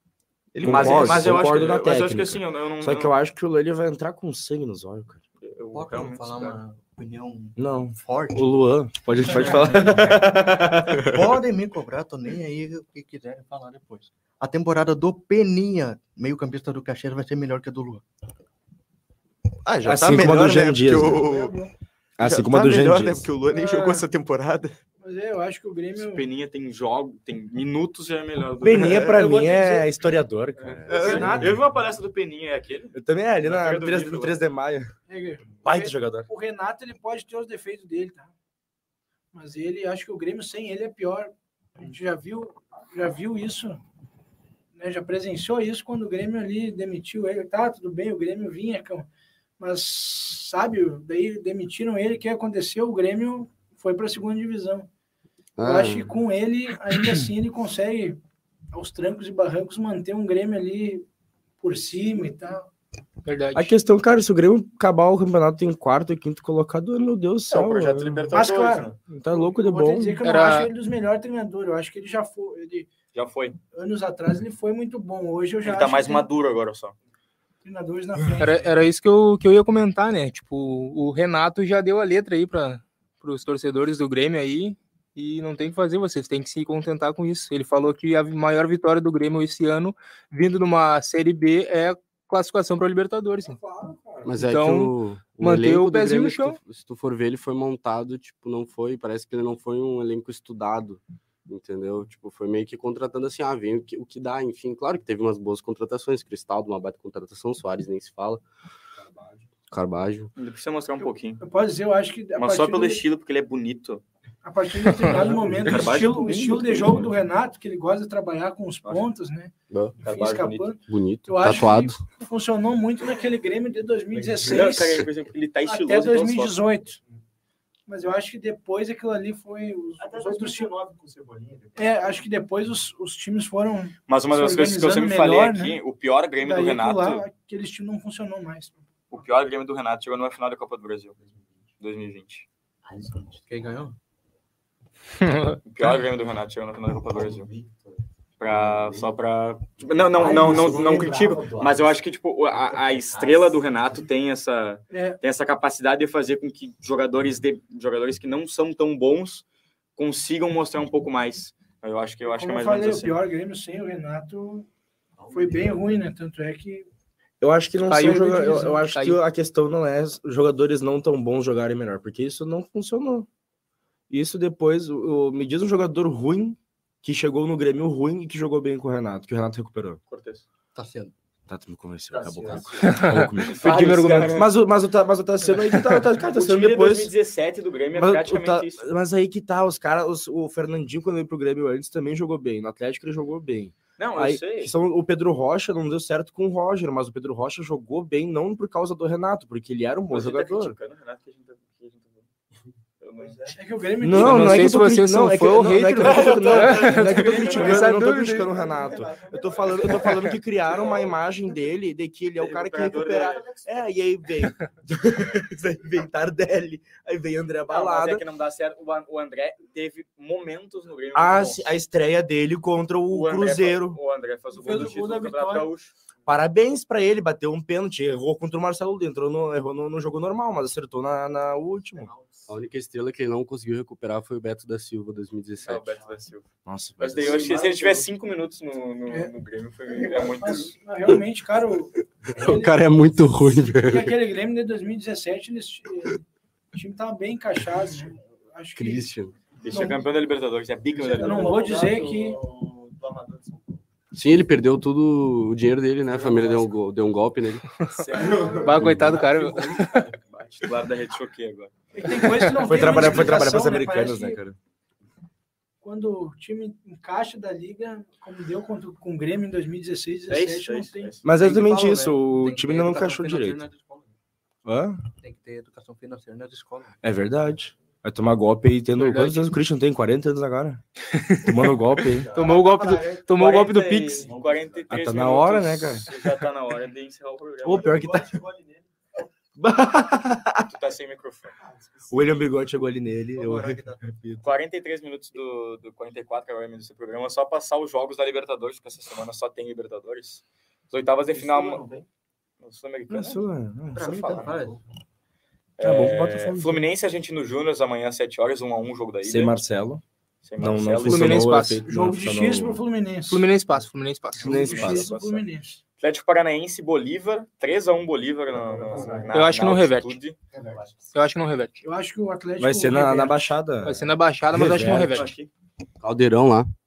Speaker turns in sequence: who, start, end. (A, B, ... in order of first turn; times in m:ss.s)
0:00.6-0:01.7 A
0:00.6-0:05.2 B
0:00.6-0:03.2 C
0:05.4-0:06.6 C
0:05.7-0:08.4 D
0:07.6-0:11.2 B
0:09.6-0:10.7 C
0:11.0-0:11.5 A
0:11.2-0:18.0 D
0:19.6-0:21.6 A
0:19.8-0:21.2 B
0:21.0-0:21.7 E
0:22.2-0:23.3 B
0:22.2-0:24.8 A
0:23.5-0:24.1 E
0:25.0-0:26.3 E
0:26.0-0:30.0 C
0:28.6-0:31.5 B
0:30.6-0:34.4 C
0:30.9-0:31.5 A
0:30.9-0:31.5 E
0:32.9-0:34.9 B
0:35.1-0:38.3 E
0:35.6-0:36.3 B
0:39.3-0:43.8 E
0:44.8-0:49.1 E
0:49.6-0:54.9 E
0:55.6-0:56.1 F
0:55.6-0:58.2 E
0:58.7-1:01.1 E
1:01.6-1:02.7 E
1:03.2-1:03.7 G
1:03.6-1:08.2 B
1:07.5-1:09.0 C
1:08.3-1:12.9 E
1:09.1-1:10.2 B
1:10.2-1:10.7 G
1:13.1-1:13.6 C
1:13.7-1:16.3 E
1:15.6-1:17.0 C
1:17.6-1:18.7 E
1:18.4-1:33.6 G
1:33.4-1:34.3 B
1:34.2-1:48.4 F
1:34.4-1:36.6 G
1:49.0-1:49.4 B
1:49.7-1:50.3 F
1:50.4-1:51.4 C
1:51.0-1:53.0 E
1:52.4-1:54.0 C
1:54.4-2:05.1 E
1:55.6-1:57.1 C
1:59.7-2:00.0 F
2:00.0-2:00.7 C
2:00.9-2:02.0 F
2:04.4-2:06.7 C
2:05.6-2:07.0 E
2:07.9-2:10.7 E
2:10.1-2:11.5 H
2:11.8-2:15.8 E
2:14.1-2:17.2 C
2:16.4-2:18.8 E
2:19.1-2:21.2 C
2:21.8-2:22.5 C
2:22.9-2:24.0 D
2:25.2-2:25.6 G
2:25.6-2:27.5 C
2:27.4-2:27.6 D
2:28.4-2:39.4 C
2:30.2-2:31.7 D
2:31.0-2:31.2 H
2:34.9-2:35.2 E
2:40.0-2:43.2 C
2:42.3-2:44.7 E
2:45.3-2:46.9 E
2:47.4-2:53.3 B
2:47.8-2:49.2 G
2:48.0-2:48.8 E
2:54.1-3:00.0 B
3:00.1-3:00.5 C
3:00.8-3:01.1 D
3:01.5-3:07.1 B
3:02.4-3:02.8 D
3:02.8-3:04.4 G
3:03.2-3:04.5 C
3:05.6-3:06.0 G
3:06.2-3:08.9 C
3:07.9-3:20.8 B
3:14.0-3:14.7 C
3:20.1-3:22.3 C
3:23.0-3:23.6 C
3:23.6-3:24.8 E
3:24.0-3:38.2 B
3:24.2-3:28.6 G
3:26.0-3:28.0 C
3:26.5-3:28.3 E
3:28.6-3:29.8 H
3:28.6-3:30.0 D
3:29.7-3:30.1 C
3:30.7-3:31.1 C
3:32.4-3:33.7 C
3:37.7-3:41.7 C
3:41.1-3:44.0 B
3:43.1-3:45.9 C
3:44.5-3:45.7 E
3:46.3-3:52.1 B
3:52.5-3:55.9 F
3:55.6-3:56.5 C
3:56.6-3:57.6 B
3:57.0-4:00.7 C
3:59.1-3:59.3 E
3:59.9-4:02.9 E
4:02.3-4:04.1 F
4:03.8-4:06.2 E
4:06.8-4:09.1 E
4:08.8-4:09.3 F
4:09.6-4:11.8 C
4:09.7-4:10.0 E
4:11.1-4:12.4 E
4:11.3-4:13.3 H
4:11.4-4:13.5 D
4:14.1-4:17.7 F
4:17.9-4:20.2 G
4:17.9-4:23.1 C
4:18.8-4:19.2 B
4:21.9-4:24.4 E
4:22.6-4:24.6 B
4:25.8-4:31.1 E
4:30.3-4:31.5 C
4:31.2-4:33.6 B
4:31.4-4:34.0 D
4:34.6-4:35.0 B
4:35.2-4:36.9 D
4:37.0-4:40.8 B
4:39.0-4:39.5 G
4:41.1-4:44.3 G
4:41.4-4:42.3 B
4:42.2-4:43.0 D
4:43.3-4:48.1 C
4:44.2-4:44.9 D
4:44.9-4:46.1 B
4:47.6-4:48.4 B
4:47.9-4:48.7 H
4:47.9-4:48.8 D
4:49.6-4:50.7 B
4:50.7-4:51.6 C
4:52.1-4:54.5 B
4:53.4-4:54.0 D
4:54.4-5:01.8 C
5:01.4-5:02.0 D
5:02.6-5:03.5 C
5:03.1-5:04.6 B
5:04.0-5:04.8 D
5:04.0-5:04.6 H
5:04.2-5:04.7 C
5:05.8-5:09.6 C
5:05.8-5:06.8 B
5:09.2-5:10.0 B
5:10.4-5:11.5 C
5:10.6-5:12.8 B
5:11.0-5:11.9 G
5:11.8-5:13.5 E
5:13.3-5:14.7 G
5:14.4-5:15.8 E
5:14.4-5:15.1 B
5:14.5-5:15.5 C
5:16.0-5:20.4 C
5:19.3-5:20.2 G
5:21.1-5:21.8 G
5:21.8-5:23.4 E
5:22.6-5:25.2 B
5:23.8-5:25.3 G
5:24.8-5:25.5 C
5:26.0-5:26.7 F